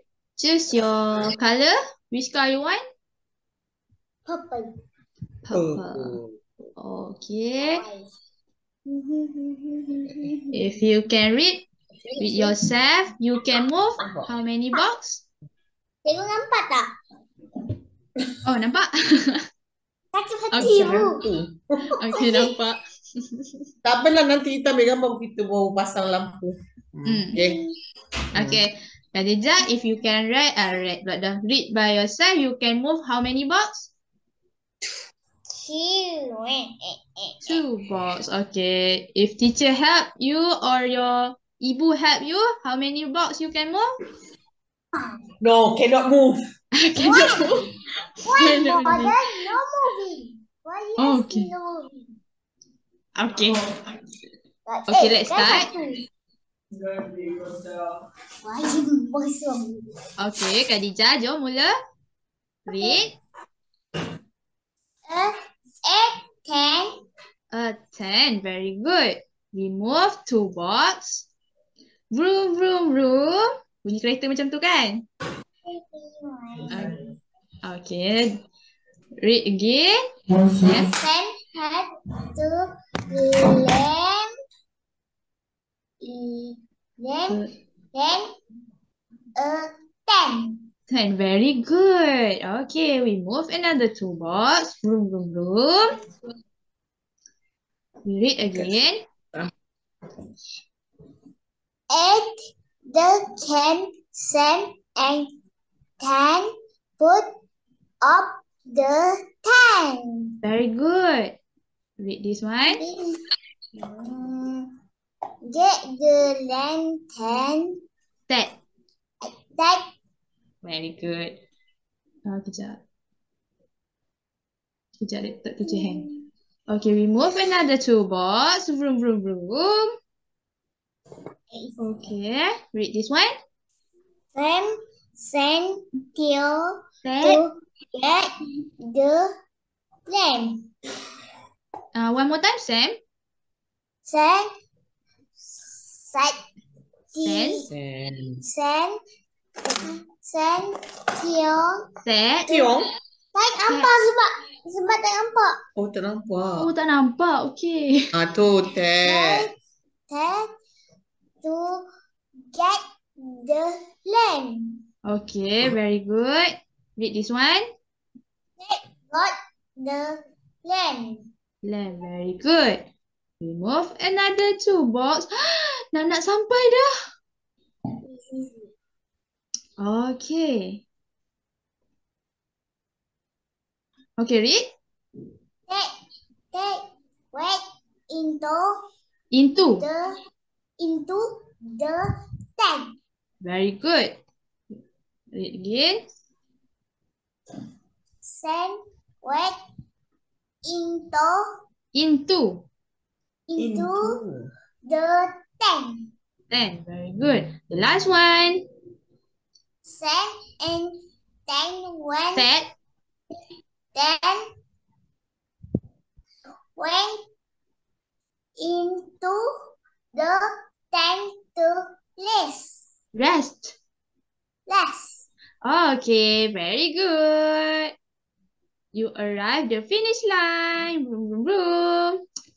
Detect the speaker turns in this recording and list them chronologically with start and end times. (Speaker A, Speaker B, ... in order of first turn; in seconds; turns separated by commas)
Speaker A: 0.4-2.8, Speaker B: 4.3-4.7, Speaker A: 5.5-6.2, Speaker C: 5.5-6.3, Speaker A: 6.8-7.8, Speaker B: 7.6-8.1, Speaker B: 8.8-10.6, Speaker A: 10.5-11.7, Speaker B: 12.1-12.5, Speaker A: 12.2-15.2, Speaker C: 14.0-14.3, Speaker B: 16.0-16.8, Speaker A: 18.4-19.4, Speaker B: 20.1-21.2, Speaker A: 20.5-20.9, Speaker C: 20.6-21.9, Speaker A: 22.0-22.8, Speaker B: 22.1-22.5, Speaker C: 23.8-27.6, Speaker A: 27.1-27.4, Speaker B: 27.4-27.7, Speaker C: 28.4-28.6, Speaker A: 28.4-33.9, Speaker B: 35.6-37.5, Speaker A: 37.4-43.9, Speaker C: 45.4-46.4, Speaker A: 46.7-47.7, Speaker B: 47.0-47.6, Speaker B: 48.2-52.0, Speaker A: 48.3-49.5, Speaker A: 51.0-51.5, Speaker A: 53.1-53.8, Speaker B: 54.6-56.0, Speaker A: 54.9-55.7, Speaker B: 58.4-59.8, Speaker A: 60.2-61.7, Speaker A: 62.7-63.1, Speaker B: 62.7-63.0, Speaker B: 65.9-66.8, Speaker A: 67.5-71.3, Speaker A: 72.1-75.0, Speaker B: 75.7-76.7, Speaker A: 76.7-77.0, Speaker A: 77.6-78.4, Speaker A: 79.2-80.0, Speaker A: 80.5-80.9, Speaker B: 80.7-84.2, Speaker B: 86.0-87.4, Speaker B: 87.9-88.2, Speaker B: 89.4-90.5, Speaker A: 90.9-95.9, Speaker A: 98.0-99.0, Speaker B: 101.9-102.3, Speaker B: 102.9-105.2, Speaker B: 106.0-106.5, Speaker B: 107.0-107.2, Speaker B: 108.0-110.2, Speaker A: 110.4-111.4, Speaker A: 112.0-112.8, Speaker B: 112.7-113.2, Speaker B: 113.8-114.6, Speaker B: 115.5-117.7, Speaker A: 118.3-118.5, Speaker B: 119.5-119.8, Speaker A: 120.6-121.4, Speaker A: 122.2-122.8, Speaker A: 125.0-126.0, Speaker B: 125.7-126.1, Speaker A: 126.7-129.9, Speaker B: 131.5-132.1, Speaker A: 131.8-133.3, Speaker B: 134.3-136.7, Speaker A: 137.0-137.4, Speaker B: 137.2-138.3, Speaker B: 138.9-139.2, Speaker B: 140.1-140.5, Speaker A: 141.9-142.9, Speaker B: 144.0-144.4, Speaker B: 145.4-146.3, Speaker B: 147.1-147.7, Speaker A: 147.2-147.6, Speaker C: 147.7-148.4, Speaker B: 148.4-148.9, Speaker B: 149.6-151.7, Speaker A: 152.0-152.5, Speaker C: 152.5-152.9, Speaker B: 153.3-155.5, Speaker A: 153.7-154.0, Speaker C: 155.8-156.7, Speaker A: 156.6-158.0, Speaker C: 158.1-159.5, Speaker B: 159.0-159.5, Speaker B: 160.1-160.4, Speaker B: 161.4-161.8, Speaker B: 162.5-164.6, Speaker A: 165.0-167.7, Speaker B: 168.6-170.1, Speaker B: 170.6-171.2, Speaker A: 171.6-172.8, Speaker A: 173.4-176.9, Speaker B: 178.1-178.7, Speaker A: 179.8-180.8, Speaker A: 184.2-184.6, Speaker B: 188.1-188.6, Speaker A: 189.3-189.9, Speaker B: 189.8-190.1, Speaker B: 190.8-191.2, Speaker B: 191.7-192.0, Speaker A: 193.4-194.2, Speaker A: 195.3-196.0, Speaker B: 198.2-199.5, Speaker B: 200.6-201.3, Speaker A: 201.9-202.6, Speaker B: 203.5-204.2, Speaker C: 203.6-204.5, Speaker B: 204.9-206.0, Speaker A: 206.5-208.6, Speaker B: 209.8-210.9, Speaker B: 211.5-212.5, Speaker A: 212.3-212.7, Speaker B: 213.9-214.4, Speaker B: 216.8-217.1, Speaker B: 218.6-219.4, Speaker B: 220.1-222.8, Speaker A: 223.1-223.7, Speaker B: 224.7-225.2, Speaker A: 225.6-227.9, Speaker A: 228.9-232.2